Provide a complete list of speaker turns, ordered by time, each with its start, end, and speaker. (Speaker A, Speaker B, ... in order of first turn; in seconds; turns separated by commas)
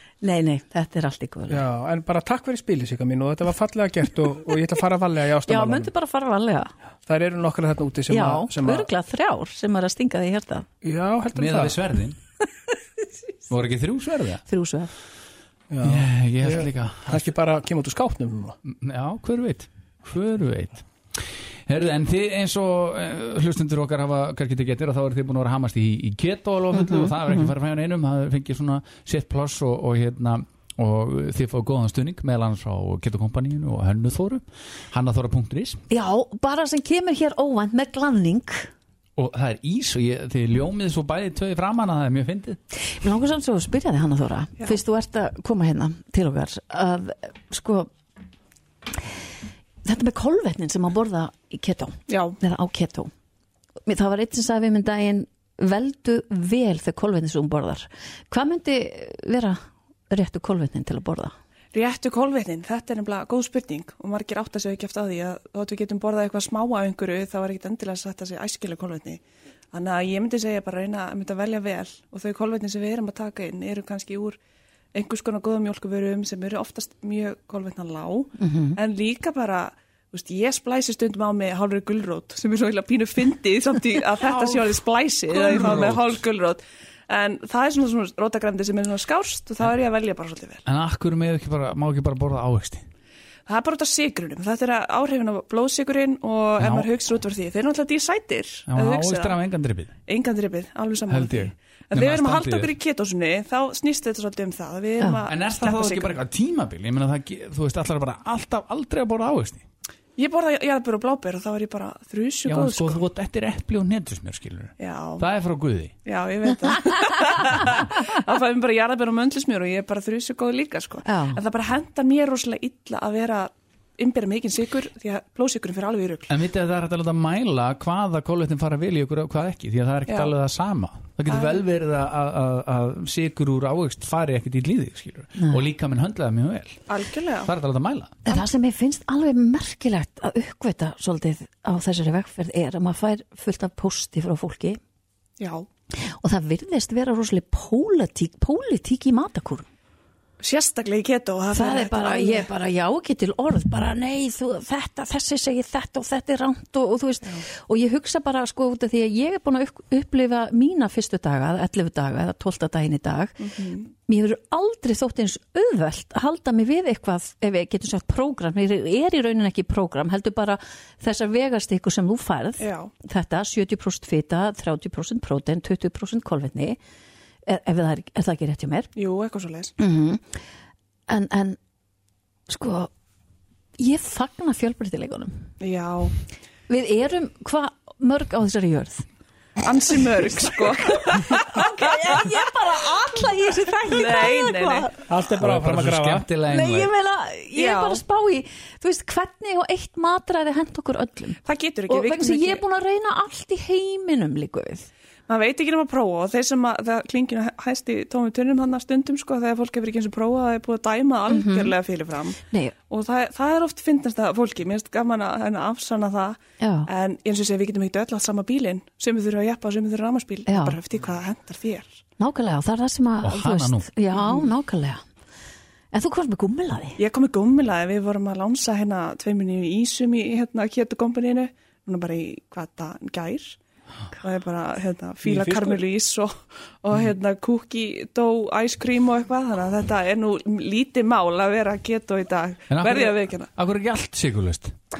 Speaker A: 0.2-1.7, Speaker B: 1.5-5.9, Speaker A: 5.5-6.7, Speaker B: 7.0-8.9, Speaker A: 8.1-10.7, Speaker B: 10.8-11.8, Speaker C: 11.3-12.2, Speaker C: 13.5-14.4, Speaker A: 14.5-14.9, Speaker B: 15.7-18.6, Speaker C: 15.8-17.2, Speaker C: 18.6-20.9, Speaker C: 21.7-35.8, Speaker A: 26.7-27.5, Speaker A: 35.9-38.7, Speaker C: 39.2-42.6, Speaker A: 42.9-47.9, Speaker A: 49.8-53.1, Speaker D: 52.1-52.4, Speaker A: 53.9-59.6, Speaker A: 60.1-61.3, Speaker D: 61.7-69.2, Speaker D: 69.7-74.4, Speaker D: 74.9-90.6, Speaker A: 78.4-78.8, Speaker C: 84.2-84.7, Speaker C: 85.3-86.1, Speaker C: 90.7-92.9, Speaker D: 93.5-99.4, Speaker C: 96.6-96.9, Speaker C: 98.7-99.9, Speaker D: 100.1-106.2, Speaker C: 101.1-102.7, Speaker C: 105.3-109.6, Speaker D: 110.2-113.0, Speaker C: 112.5-115.9, Speaker D: 114.8-115.2, Speaker D: 116.0-126.3, Speaker A: 121.1-121.4, Speaker C: 126.3-136.8, Speaker D: 130.1-130.3, Speaker D: 131.3-131.6, Speaker D: 136.9-137.5, Speaker C: 137.4-138.2, Speaker A: 138.3-144.8, Speaker D: 145.4-145.7, Speaker A: 146.0-149.7, Speaker D: 150.4-152.5, Speaker A: 151.5-176.8, Speaker D: 163.4-163.8, Speaker D: 172.6-172.9, Speaker A: 177.5-178.9, Speaker D: 179.0-179.7, Speaker A: 179.8-180.2, Speaker A: 181.1-181.6, Speaker A: 182.5-182.9, Speaker A: 183.8-185.3, Speaker D: 185.6-186.1, Speaker A: 186.7-189.1, Speaker D: 189.6-191.8, Speaker A: 191.1-194.9, Speaker D: 193.9-194.9, Speaker B: 195.1-196.3, Speaker C: 195.4-196.9, Speaker A: 196.5-204.9, Speaker D: 197.6-198.0, Speaker D: 201.4-202.6, Speaker D: 205.3-222.0, Speaker A: 211.3-211.8, Speaker A: 216.6-216.9, Speaker A: 220.5-220.8, Speaker A: 222.2-225.0, Speaker C: 223.2-223.9, Speaker D: 224.2-224.5, Speaker A: 225.9-227.0, Speaker D: 227.0-233.6, Speaker D: 234.2-243.5, Speaker B: 235.2-235.8, Speaker C: 242.7-244.8